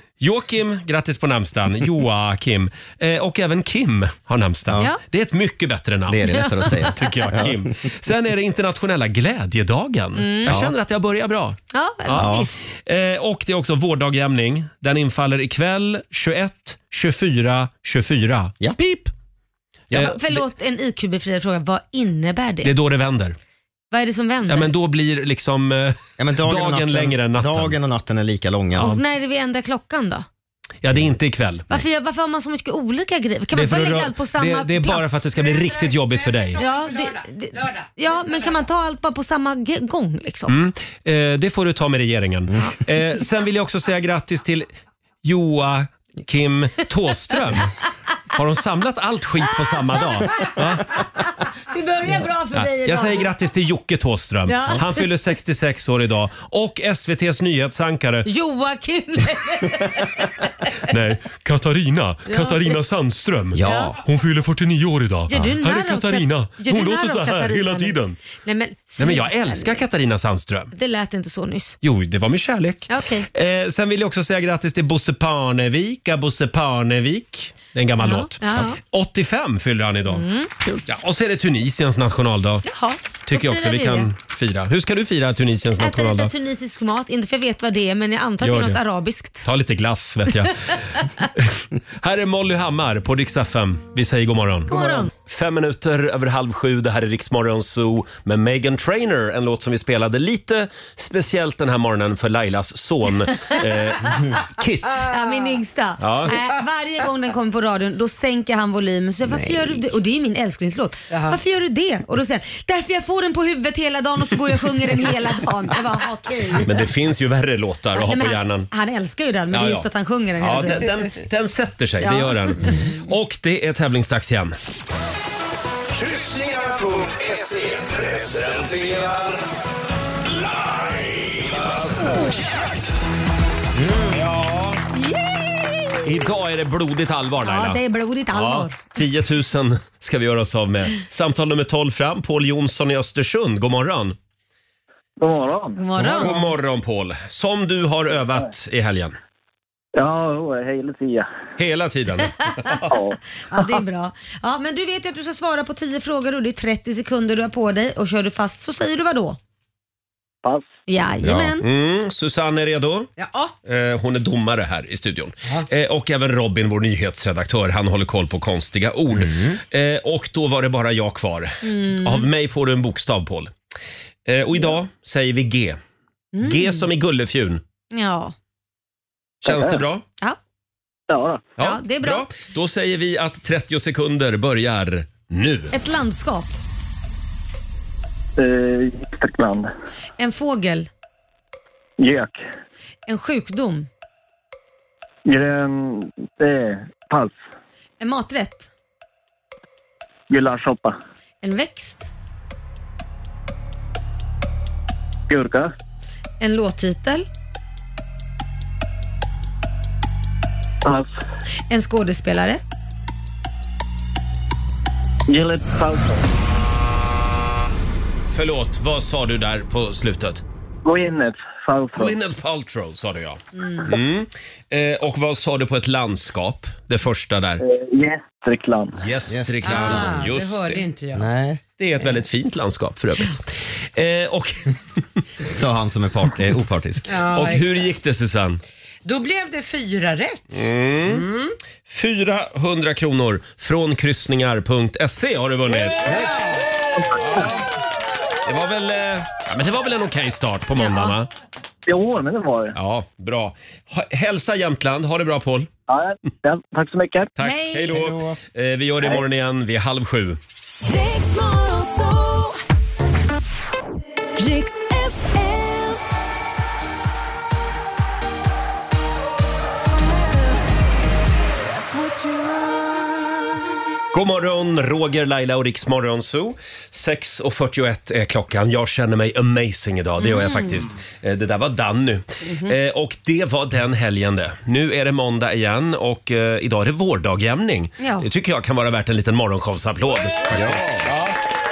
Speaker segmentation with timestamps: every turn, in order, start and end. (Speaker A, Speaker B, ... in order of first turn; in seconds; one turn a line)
Speaker A: 0.2-6.2
Speaker B: 6.1-7.6
Speaker C: 6.2-6.9
Speaker A: 6.8-19.1
Speaker C: 10.2-10.6
Speaker C: 11.7-12.5
Speaker B: 12.2-12.5
Speaker A: 19.9-20.4
Speaker C: 19.9-22.7
Speaker A: 22.6-23.4
Speaker C: 23.9-24.7
Speaker A: 24.5-27.8
Speaker B: 26.2-29.0
Speaker C: 28.7-30.2
Speaker A: 30.8-31.7
Speaker C: 31.7-35.2
Speaker A: 33.5-36.6
Speaker C: 36.5-40.5
Speaker A: 40.5-44.6
Speaker A: 45.2-47.7
Speaker A: 48.3-50.9
Speaker C: 50.2-53.3
Speaker A: 52.5-58.3
Speaker C: 54.5-55.0
Speaker C: 58.2-60.6
Speaker A: 60.8-68.2
Speaker C: 62.3-62.8
Speaker B: 63.5-64.0
Speaker C: 63.6-63.9
Speaker C: 65.3-69.7
Speaker A: 69.0-70.7
Speaker C: 70.7-71.8
Speaker A: 71.8-80.2
Speaker C: 72.9-73.3
Speaker C: 78.0-78.8
Speaker C: 80.1-80.5
Speaker A: 80.8-82.6
Speaker C: 82.6-84.1
Speaker A: 83.3-86.3
Speaker C: 85.8-89.4
Speaker A: 88.4-88.8
Speaker A: 89.4-105.1
Speaker C: 91.0-91.3
Speaker C: 94.7-95.1
Speaker C: 103.3-103.6
Speaker C: 105.0-116.7
Speaker A: 106.0-106.3
Speaker B: 109.2-109.8
Speaker D: 111.1-111.4
Speaker A: 116.6-118.7
Speaker C: 117.9-120.9
Speaker A: 119.5-119.9
Speaker A: 120.4-124.6
Speaker C: 122.0-122.8
Speaker E: 126.0-129.4
Speaker E: 130.3-132.2
Speaker B: 133.8-134.2
Speaker A: 134.1-134.8
Speaker C: 134.9-136.1
Speaker A: 136.0-137.8
Speaker C: 137.4-138.8
Speaker A: 138.3-144.2
Speaker F: 145.2-145.8
Speaker C: 145.8-146.5
Speaker A: 146.0-149.1
Speaker F: 150.0-151.3
Speaker A: 151.6-152.9
Speaker F: 152.9-153.2
Speaker C: 153.5-159.4
Speaker C: 160.9-161.6
Speaker B: 161.2-161.5
Speaker A: 161.6-163.1
Speaker D: 163.2-163.5
Speaker A: 163.7-173.5
Speaker B: 169.1-169.6
Speaker C: 171.6-172.2
Speaker A: 174.3-175.8
Speaker C: 176.3-176.8
Speaker A: 176.4-177.6
Speaker C: 177.9-178.3
Speaker A: 179.4-180.0
Speaker F: 179.4-179.8
Speaker F: 181.1-181.5
Speaker C: 181.6-182.2
Speaker A: 181.6-185.7
Speaker C: 185.7-186.5
Speaker F: 188.4-189.7
Speaker C: 190.2-190.9
Speaker F: 192.0-192.4
Speaker C: 193.1-193.9
Speaker F: 195.2-197.4
Speaker C: 198.0-198.7
Speaker F: 200.3-200.9
Speaker C: 201.4-202.1
Speaker F: 205.3-205.7
Speaker C: 206.4-207.2
Speaker F: 210.8-211.1
Speaker C: 211.7-212.6
Speaker F: 215.3-216.3
Speaker A: 218.3-220.4
Speaker F: 220.8-222.1
Speaker A: 221.9-227.6
Speaker F: 227.6-228.9
Speaker A: 228.9-230.8
Speaker B: 229.3-230.1
Speaker D: 229.6-231.3
Speaker B: 231.1-231.6
Speaker A: 231.8-234.8
Speaker B: 235.4-237.2
Speaker D: 237.1-237.9
Speaker A: 237.3-238.6
Speaker D: 239.0-241.5
Speaker A: 240.5-241.3
Speaker A: 241.9-246.2
Speaker F: 247.0-247.5
Speaker A: 248.4-251.3
Speaker C: 250.8-251.1
Speaker F: 251.9-252.7
Speaker A: 252.8-255.7
Speaker F: 255.9-257.3
Speaker A: 257.4-260.4
Speaker C: 257.4-257.9
Speaker B: 257.9-258.4
Speaker C: 261.1-262.0
Speaker C: 264.5-265.4
Speaker A: 274.1-291.3
Speaker C: 280.2-280.8
Speaker C: 282.4-282.7
Speaker C: 288.0-288.2
Speaker B: 290.5-291.1